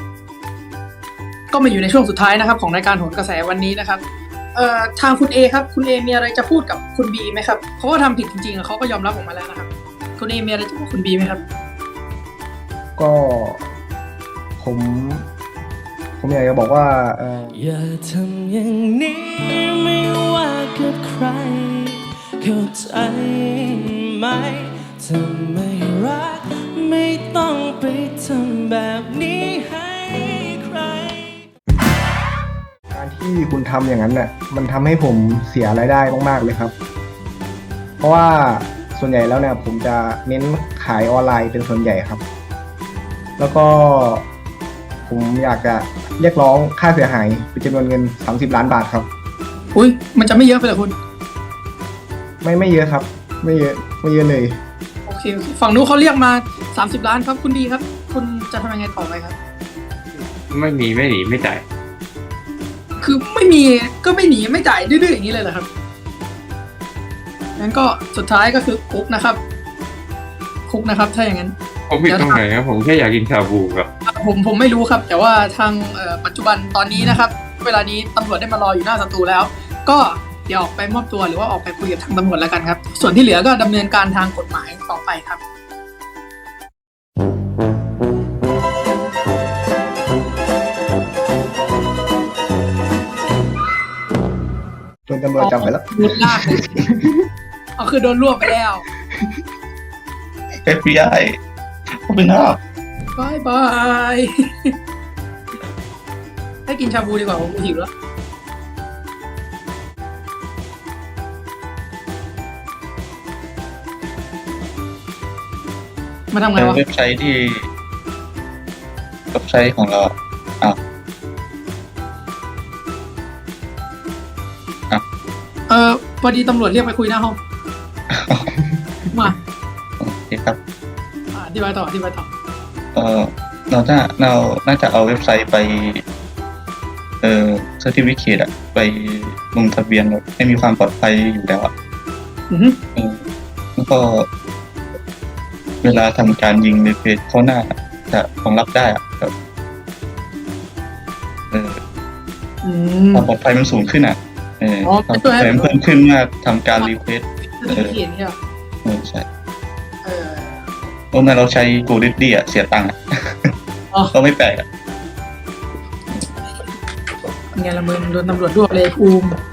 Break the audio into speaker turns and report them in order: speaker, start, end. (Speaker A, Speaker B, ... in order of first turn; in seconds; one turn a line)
Speaker A: 1.5-4.0
Speaker A: 4.5-11.4
Speaker B: 13.0-13.7
Speaker B: 14.6-15.3
Speaker B: 16.2-17.6
Speaker C: 17.5-31.3
Speaker B: 32.9-36.7
Speaker B: 38.0-42.2
Speaker B: 43.4-44.3
Speaker B: 45.1-49.1
Speaker A: 49.7-51.0
Speaker B: 52.4-54.6
Speaker A: 55.1-59.4
Speaker D: 60.1-61.6
Speaker A: 63.0-65.7
Speaker A: 67.6-69.4
Speaker A: 70.7-71.5
Speaker D: 71.9-73.9
Speaker A: 72.1-72.4
Speaker A: 74.1-85.4
Speaker B: 95.1-97.2
Speaker A: 95.4-96.7
Speaker A: 97.8-98.8
Speaker E: 100.7-101.4
Speaker E: 102.1-102.6
Speaker A: 103.2-104.7
Speaker A: 106.7-107.9
Speaker A: 116.3-116.8
Speaker E: 116.6-117.7
Speaker E: 119.3-120.8
Speaker A: 125.7-127.4
Speaker E: 128.1-128.5
Speaker A: 129.1-129.4
Speaker E: 130.0-130.6
Speaker A: 131.3-132.3
Speaker E: 132.9-136.0
Speaker E: 137.2-141.7
Speaker A: 142.5-142.8
Speaker E: 142.9-143.2
Speaker E: 143.8-144.3
Speaker E: 145.8-149.3
Speaker E: 151.5-151.8
Speaker A: 152.6-153.3
Speaker E: 153.1-158.0
Speaker A: 154.8-155.7
Speaker A: 157.5-158.4
Speaker E: 158.8-159.3
Speaker A: 160.0-160.7
Speaker E: 161.1-163.5
Speaker E: 164.1-164.7
Speaker A: 167.6-169.3